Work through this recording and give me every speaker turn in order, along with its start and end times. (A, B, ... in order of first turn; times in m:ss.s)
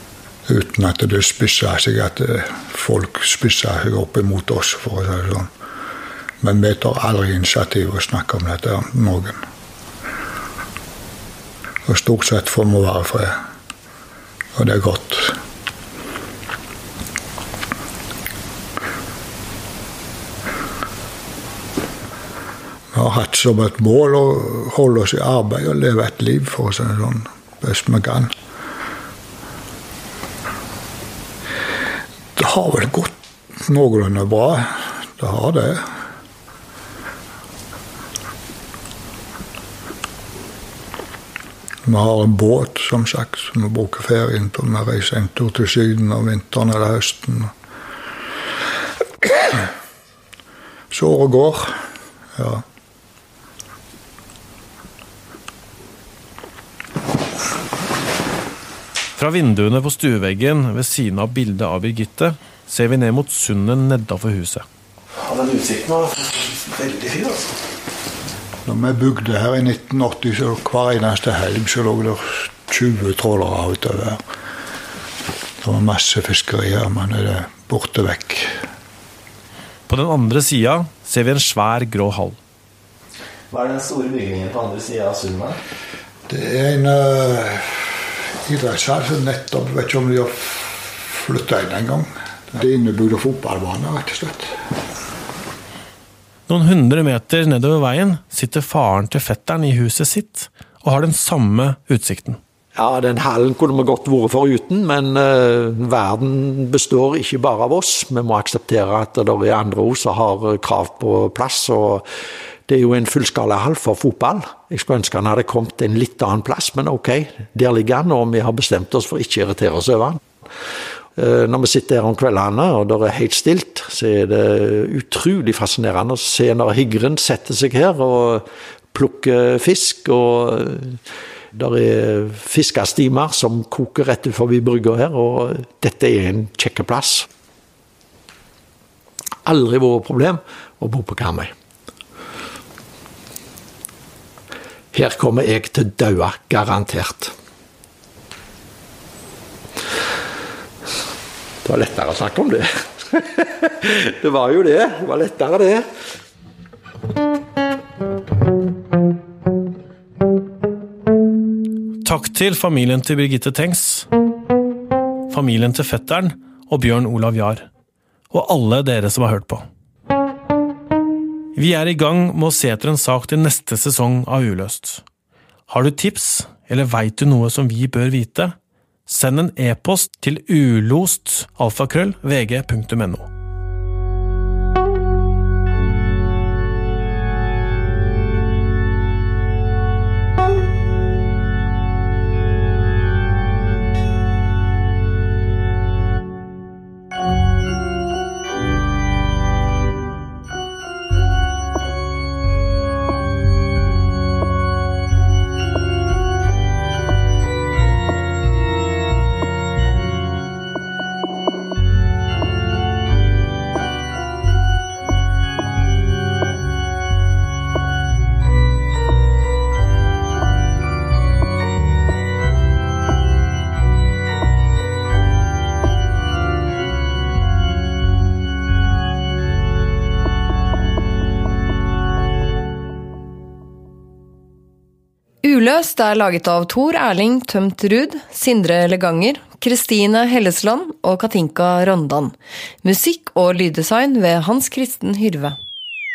0:00.5-0:05.5 A
0:06.4-0:09.4 A
0:11.8-0:13.4 A
0:14.6-0:15.4 A
0:22.9-0:28.3 A
0:32.4-0:35.9 A
0:41.9-0:47.5 A
0:50.9-0:51.8 A
0:52.4-0:52.6 A
0:59.2-1:04.6 B
1:05.2-1:07.6 B
1:08.7-1:14.2 A
1:15.6-1:18.6 A
1:19.9-1:22.4 B
1:23.5-1:25.6 C
1:26.3-1:34.6 A
1:36.5-1:42.4 B
1:42.8-1:52.1 D
1:52.7-2:00.2 D
2:01.2-2:11.0 D
2:11.5-2:17.3 D
2:19.4-2:21.5 D
2:24.9-2:27.3 D
2:31.6-2:35.9 D
2:42.0-2:44.1 B
2:45.3-2:47.7 B
2:48.3-2:49.6 B
2:51.6-2:55.0 B
2:55.7-2:58.6 B
2:59.1-3:03.3 B
3:55.4-4:05.6 E